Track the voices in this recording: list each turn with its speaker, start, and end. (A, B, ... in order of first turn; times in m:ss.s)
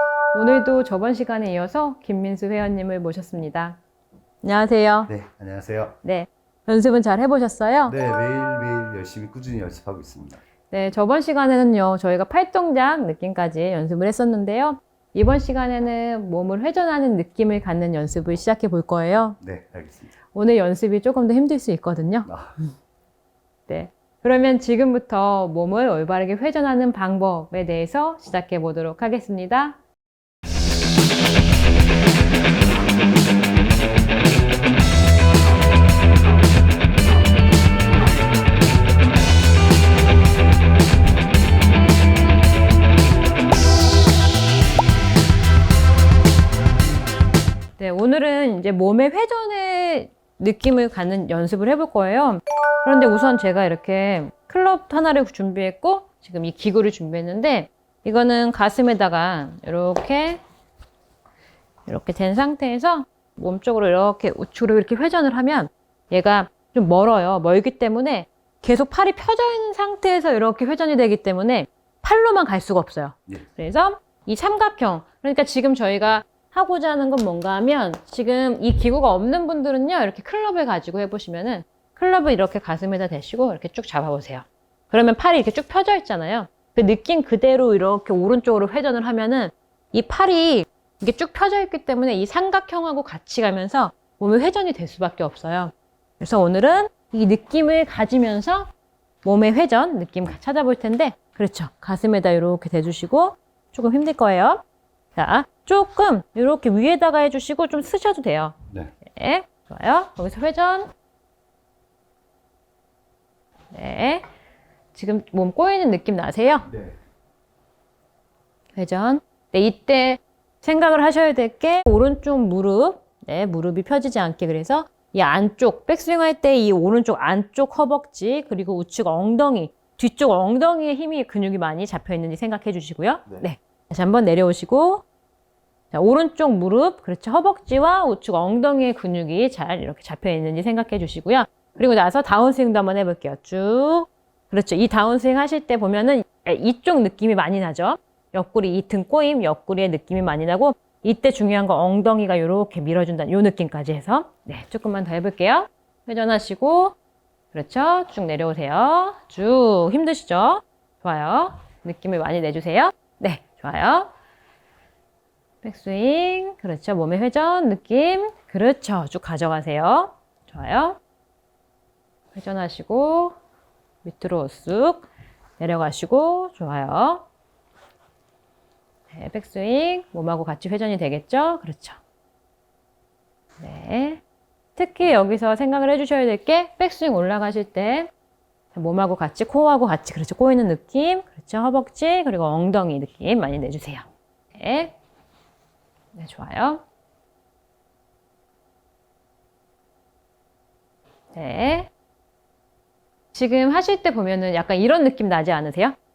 0:00.3-0:03.8 A
0:04.4-0:05.1 A
0:05.1-0:06.0 B
0:06.0-0:08.0 A
0:07.8-0:10.4 B
0:10.7-0:19.4 A
0:19.4-0:20.1 B
0:20.3-0:22.3 A
0:22.2-0:22.5 B
0:23.7-0:29.8 A
0:47.8-1:00.4 A
1:01.9-1:38.7 A
1:39.2-1:44.6 A
1:45.2-1:48.6 A
1:49.1-1:50.9 A
1:53.7-1:54.2 A
1:54.9-1:56.7 A
1:58.8-2:15.0 A
2:15.9-2:36.9 A
2:37.5-2:44.1 A
2:45.6-2:51.0 A
2:52.3-2:53.4 A
2:54.0-2:55.1 A
2:55.6-2:57.3 A
2:59.1-3:02.0 A
3:03.6-3:04.2 A
3:04.8-3:08.1 A
3:08.7-3:14.9 A
3:16.1-3:16.8 A
3:21.3-3:21.9 A
3:23.3-3:25.9 A